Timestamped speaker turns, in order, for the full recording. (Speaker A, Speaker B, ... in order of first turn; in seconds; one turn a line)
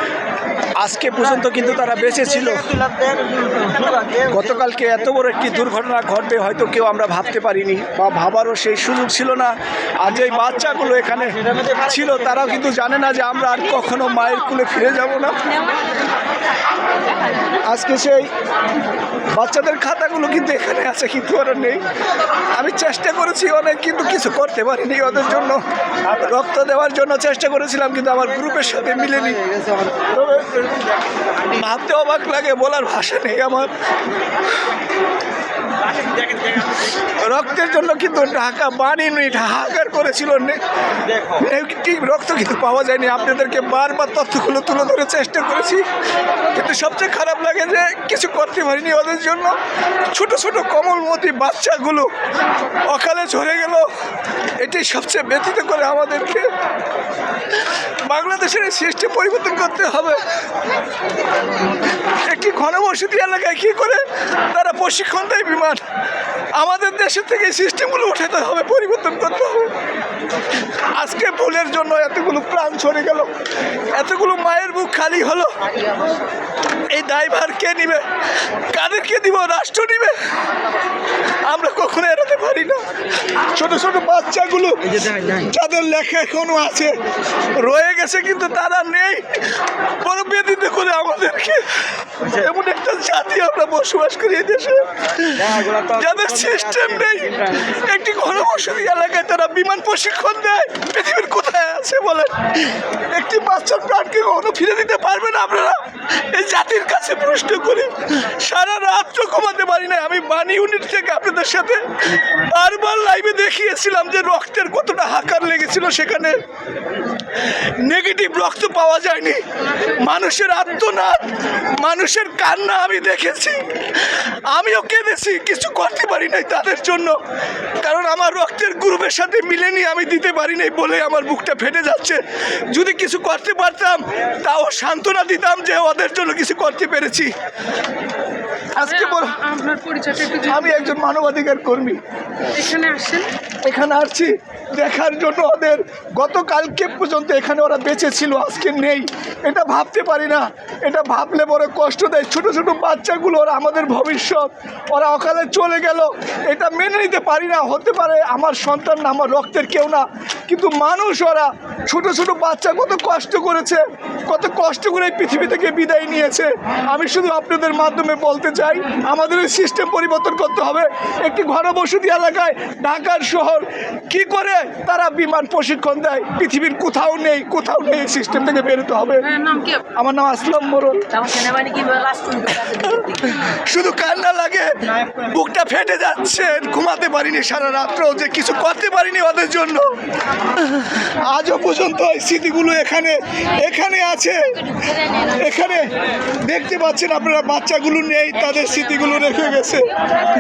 Speaker A: 0.8-2.9
Speaker A: 4.3-15.4
Speaker A: 17.7-18.3
Speaker A: 19.4-21.8
Speaker A: 22.6-29.5
Speaker A: 30.1-30.6
Speaker A: 31.5-33.7
Speaker A: 37.1-40.6
Speaker A: 41.3-45.8
Speaker A: 46.5-49.6
Speaker A: 50.1-52.1
Speaker A: 52.9-53.9
Speaker A: 54.6-56.5
Speaker A: 58.1-60.2
Speaker A: 62.1-65.8
Speaker A: 66.6-69.7
Speaker A: 71.0-73.3
Speaker A: 73.9-75.5
Speaker A: 76.9-80.2
Speaker A: 81.5-82.9
Speaker A: 83.5-87.0
Speaker A: 87.5-89.3
Speaker A: 90.0-116.4
Speaker A: 117.5-127.2
Speaker A: 127.8-137.3
Speaker A: 138.8-139.5
Speaker B: 139.4-140.3
Speaker A: 140.3-142.0
Speaker B: 142.6-143.3
Speaker A: 143.6-181.2
Speaker B: 179.4-179.8
Speaker C: 181.1-183.3
Speaker A: 182.8-189.9
Speaker A: 190.6-195.9
Speaker A: 196.5-199.9